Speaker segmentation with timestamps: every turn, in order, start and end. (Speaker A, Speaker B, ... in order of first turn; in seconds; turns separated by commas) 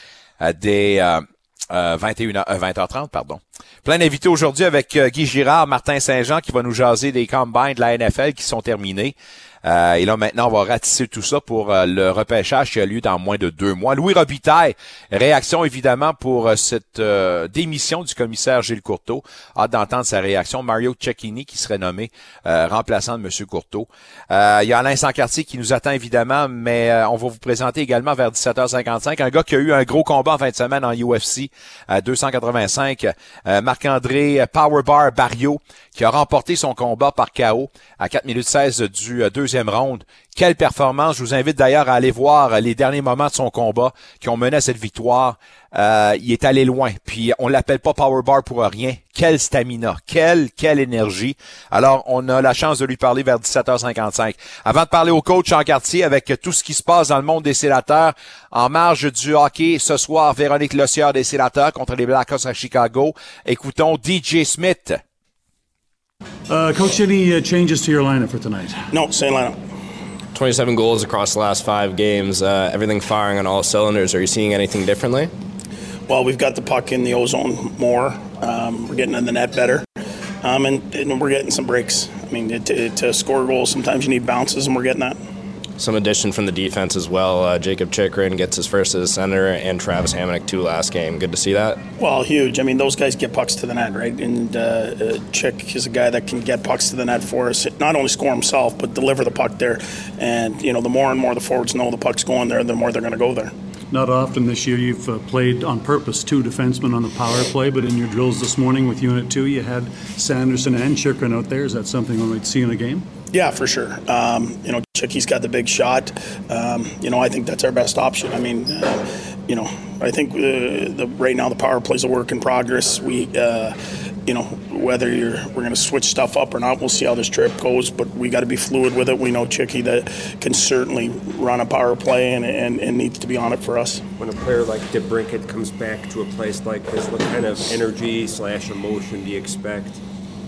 Speaker A: 0.4-65.0, Speaker B: 66.5-68.8, Speaker C: 68.9-69.6, Speaker D: 70.3-75.3, Speaker C: 76.1-79.9, Speaker C: 80.4-85.2, Speaker D: 85.8-91.8, Speaker C: 92.0-103.5, Speaker B: 103.9-113.1, Speaker C: 113.3-123.8, Speaker C: 124.3-134.1, Speaker E: 134.2-140.0